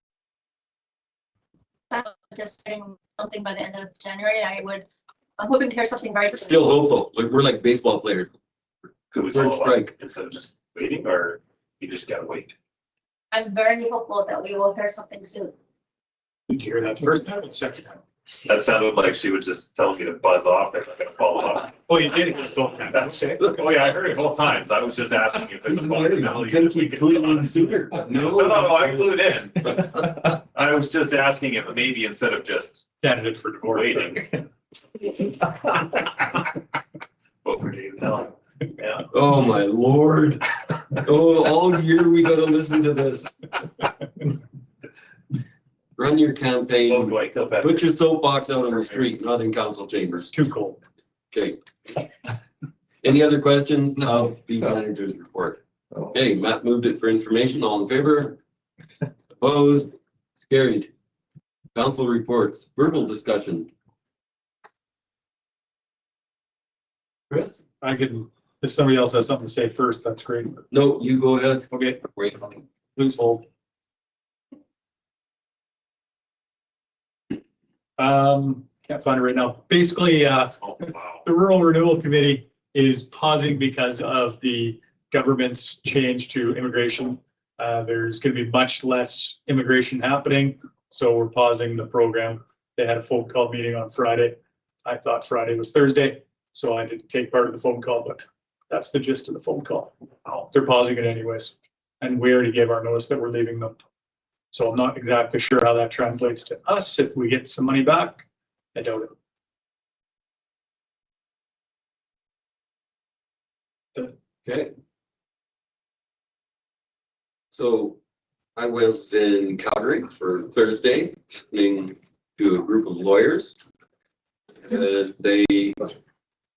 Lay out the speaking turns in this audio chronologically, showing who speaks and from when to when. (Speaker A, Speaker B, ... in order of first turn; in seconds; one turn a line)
Speaker A: 1.9-4.8
Speaker A: 5.4-6.8
Speaker B: 6.3-8.3
Speaker C: 9.1-12.5
Speaker B: 9.3-9.9
Speaker A: 13.3-15.5
Speaker D: 16.5-18.0
Speaker C: 18.4-21.9
Speaker D: 21.9-23.4
Speaker C: 22.9-32.9
Speaker B: 25.6-29.1
Speaker D: 33.0-34.2
Speaker C: 33.7-34.4
Speaker C: 37.4-39.1
Speaker B: 39.1-43.3
Speaker B: 46.0-50.3
Speaker C: 46.8-47.9
Speaker D: 50.2-50.8
Speaker B: 51.3-52.0
Speaker B: 53.0-55.6
Speaker B: 56.1-58.4
Speaker B: 59.4-60.9
Speaker B: 61.7-63.7
Speaker B: 67.3-67.6
Speaker D: 67.8-70.6
Speaker B: 70.7-72.3
Speaker D: 71.7-73.4
Speaker D: 78.0-99.9
Speaker C: 80.6-81.2
Speaker D: 100.5-103.8
Speaker D: 104.5-109.1
Speaker B: 114.4-114.7
Speaker B: 117.5-118.0
Speaker B: 118.5-123.6
Speaker B: 124.6-125.9